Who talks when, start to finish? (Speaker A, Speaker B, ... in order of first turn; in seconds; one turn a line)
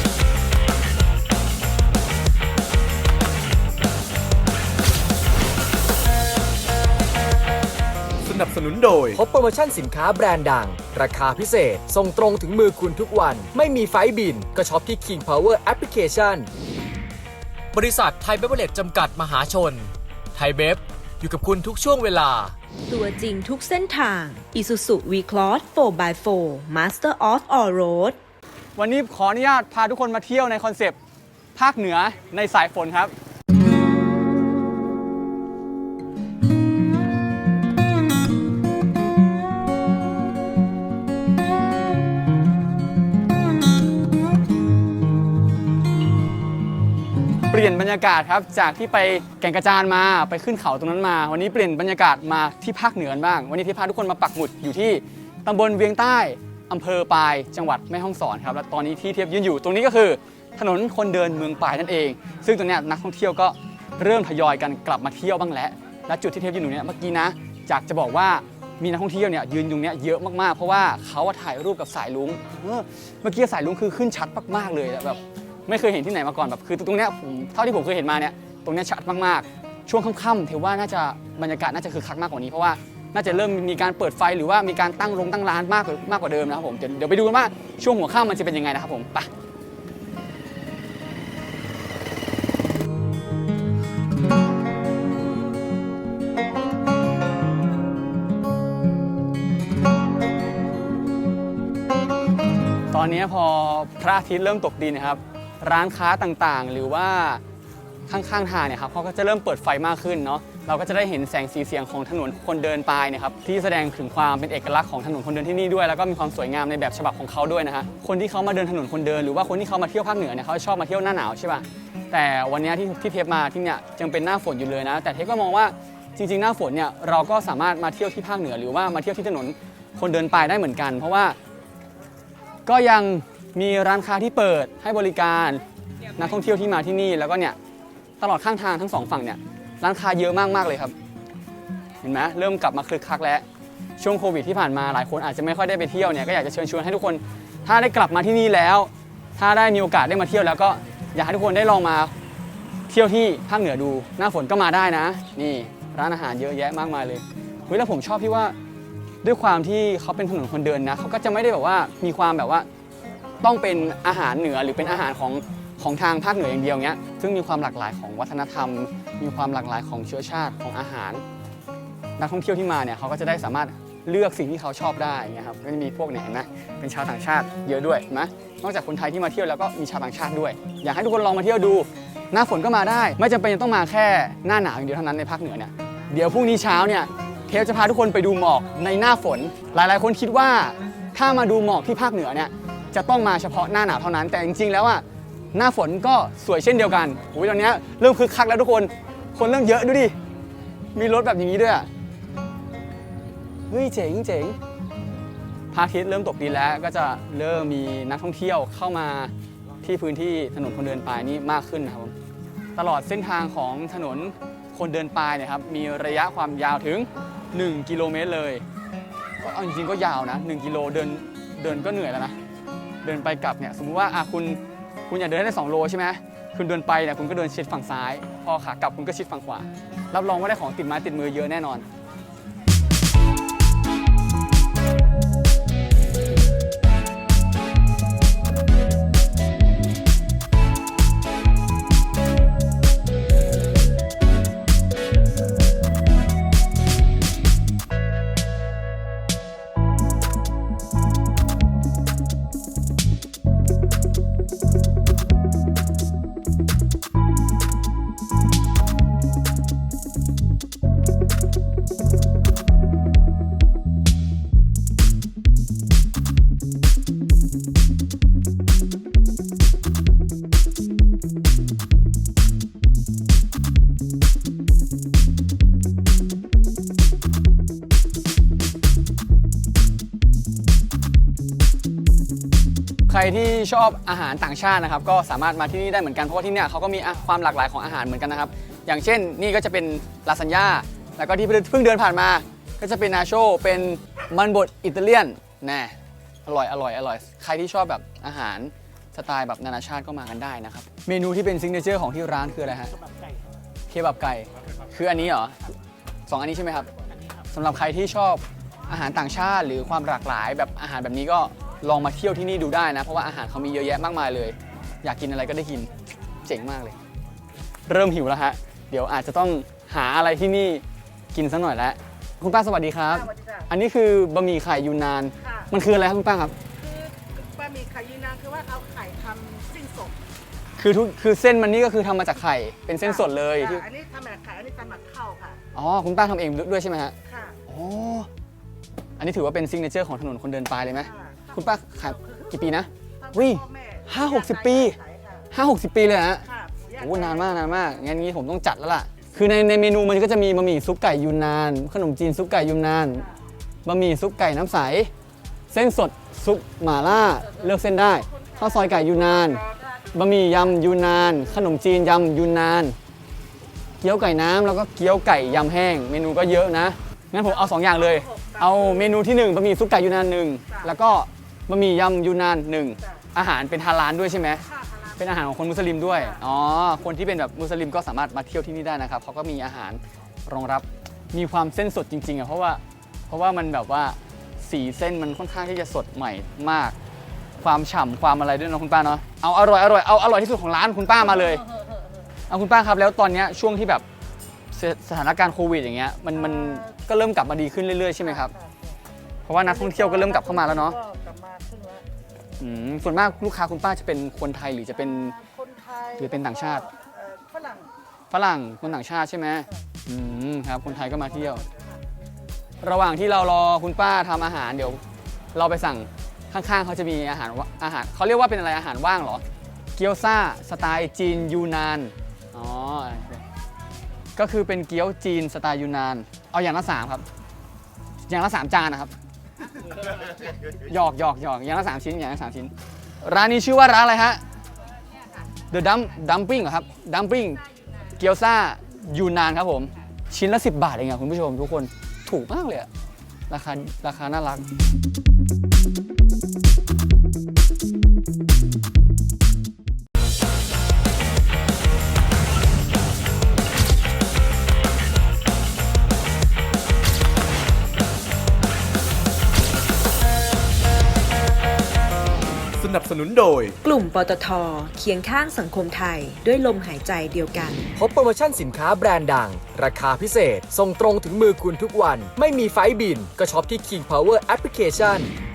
Speaker A: 8.2-9.2
Speaker B: 9.1-16.5
Speaker B: 17.7-22.6
Speaker C: 22.9-28.2
Speaker D: 28.8-31.0
Speaker D: 31.6-33.1
Speaker D: 47.5-89.3
Speaker D: 102.9-107.4
Speaker D: 108.1-131.4
Speaker D: 132.7-135.6
Speaker D: 136.1-137.6
Speaker D: 138.2-140.9
Speaker D: 142.0-143.4
Speaker D: 144.0-152.1
Speaker D: 152.9-158.6
Speaker D: 159.2-162.7
Speaker D: 163.4-171.2
Speaker D: 172.2-200.1
Speaker D: 200.9-201.9
Speaker D: 203.7-204.6
Speaker D: 205.7-212.1
Speaker D: 212.8-218.6
Speaker D: 219.4-222.3
Speaker D: 223.0-231.8
Speaker D: 283.1-302.9
Speaker D: 303.9-305.7
Speaker D: 306.3-306.9
Speaker D: 307.5-315.9
Speaker D: 316.4-317.0
Speaker D: 317.9-326.6
Speaker E: 323.1-323.6
Speaker E: 325.4-325.7
Speaker E: 326.8-330.1
Speaker D: 330.8-333.8
Speaker E: 333.0-335.6
Speaker D: 335.7-337.1
Speaker E: 337.2-337.6
Speaker D: 337.7-338.3
Speaker D: 339.2-345.0
Speaker E: 341.0-345.5
Speaker D: 345.5-346.4
Speaker E: 346.4-347.6
Speaker D: 347.0-353.2
Speaker D: 353.8-355.1
Speaker D: 355.7-359.6
Speaker E: 358.3-358.8
Speaker E: 359.6-359.8
Speaker D: 360.1-363.0
Speaker D: 364.0-374.6
Speaker E: 367.4-369.1
Speaker E: 370.7-370.9
Speaker E: 374.7-375.2
Speaker D: 375.2-386.9
Speaker E: 376.1-376.4
Speaker D: 387.6-391.6
Speaker D: 392.5-394.0
Speaker D: 394.7-398.5
Speaker E: 396.4-397.0
Speaker E: 398.2-398.8
Speaker D: 399.5-401.0
Speaker E: 399.6-402.1
Speaker D: 402.6-405.4
Speaker E: 405.1-407.9
Speaker D: 406.2-406.9
Speaker D: 408.3-411.6
Speaker D: 412.8-415.0
Speaker D: 415.5-419.4
Speaker D: 419.9-423.4
Speaker D: 424.4-427.2
Speaker D: 428.3-429.1
Speaker D: 430.8-434.4
Speaker D: 435.7-437.6
Speaker D: 438.2-442.9
Speaker D: 443.5-444.6
Speaker A: 462.8-463.8
Speaker C: 463.8-467.9
Speaker B: 467.9-475.3